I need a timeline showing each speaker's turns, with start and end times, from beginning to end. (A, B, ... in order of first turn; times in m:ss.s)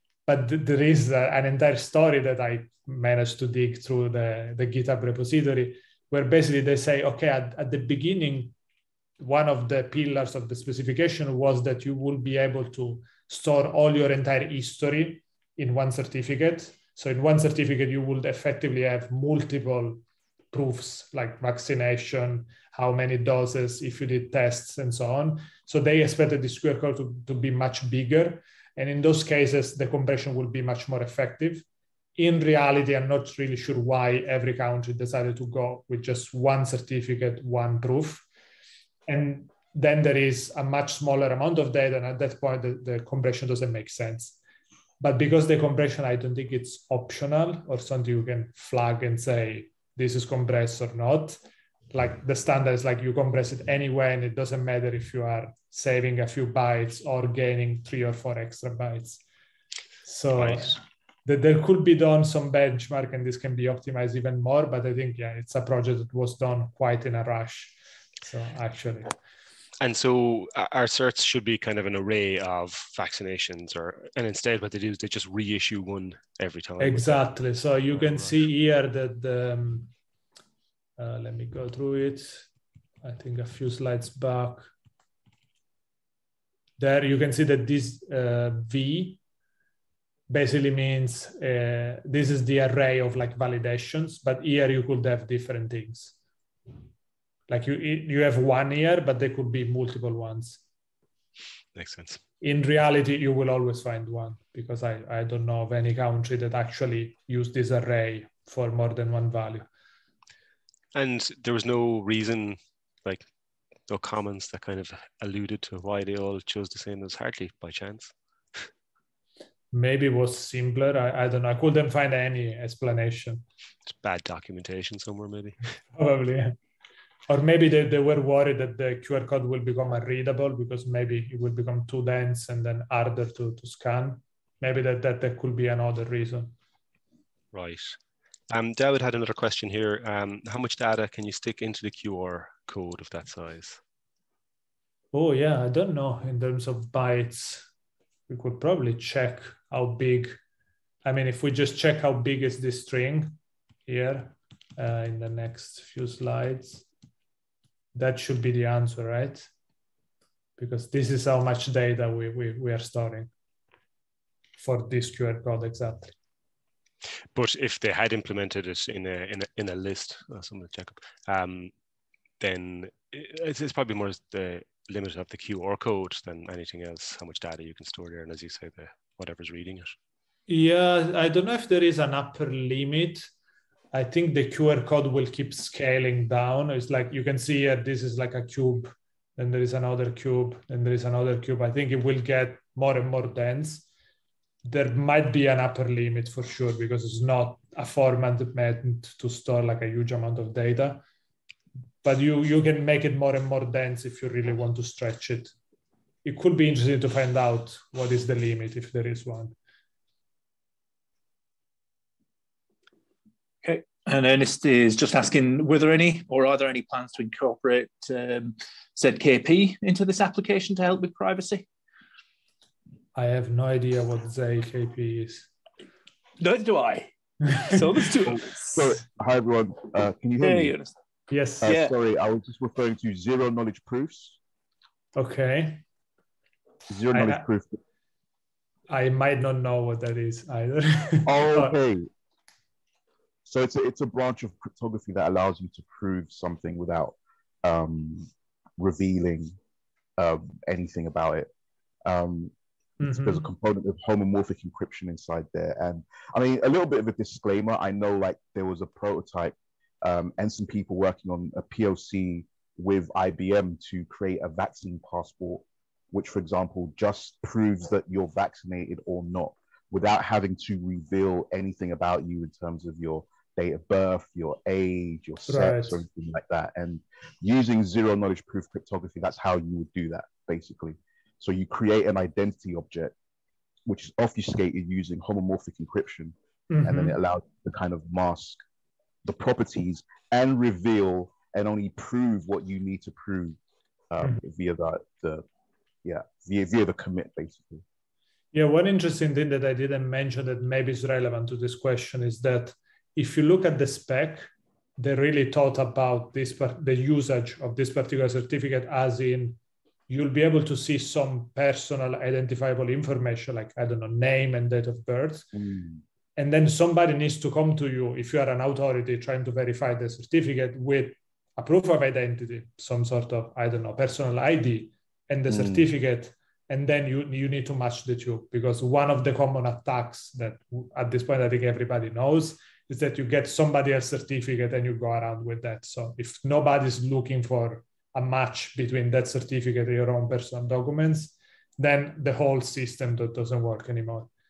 0:00.2-0:08.5 A
0:09.2-0:31.6 A
0:32.2-0:38.2 A
0:39.1-0:44.4 A
0:45.0-0:51.4 A
0:51.9-0:59.2 A
1:00.0-1:09.1 A
1:00.4-1:00.8 B
1:09.8-1:17.2 B
1:16.8-1:19.9 A
1:21.0-1:22.5 A
1:23.0-1:24.7 A
1:26.8-1:29.2 A
1:30.3-1:36.1 A
1:37.5-1:40.6 A
1:41.7-1:42.2 B
1:42.4-1:49.6 A
1:50.9-1:53.3 B
1:53.9-1:58.6 B
1:59.7-2:03.4 A
2:03.9-2:05.6 B
2:05.9-2:06.6 A
2:07.3-2:16.5 A
2:17.5-2:18.0 B
2:18.5-2:23.8 B
2:25.1-2:27.7 A
2:28.3-2:30.4 A
2:31.0-2:36.8 A
2:37.9-2:39.5 A
2:40.6-2:43.3 A
2:44.6-2:46.1 A
2:47.3-2:51.7 B
2:52.4-3:00.0 B
3:00.5-3:03.3 A
3:03.9-3:13.9 A
3:14.6-3:21.0 A
3:22.0-3:25.5 A
3:26.2-3:29.6 A
3:33.6-3:41.6 C
3:43.1-3:45.5 A
3:46.4-3:48.8 C
3:48.3-3:50.8 D
3:50.4-3:50.9 C
3:51.3-3:51.7 A
3:51.6-3:54.4 D
3:51.6-3:51.9 C
3:55.2-3:55.8 A
3:56.9-3:57.8 D
3:57.1-3:57.4 A
3:58.9-4:01.7 A
4:01.2-4:02.1 D
4:03.4-4:09.5 D
4:10.2-4:11.5 D
4:12.0-4:43.1 D
4:13.0-4:13.5 A
4:35.4-4:36.0 A
4:43.8-4:48.6 D
4:46.7-4:47.2 A
4:49.2-4:53.6 D
4:54.1-4:55.4 D
4:56.0-4:57.8 D
4:58.5-5:09.6 A
5:10.1-5:15.5 A
5:15.5-5:16.0 D
5:16.4-5:44.3 A
5:25.5-5:25.8 D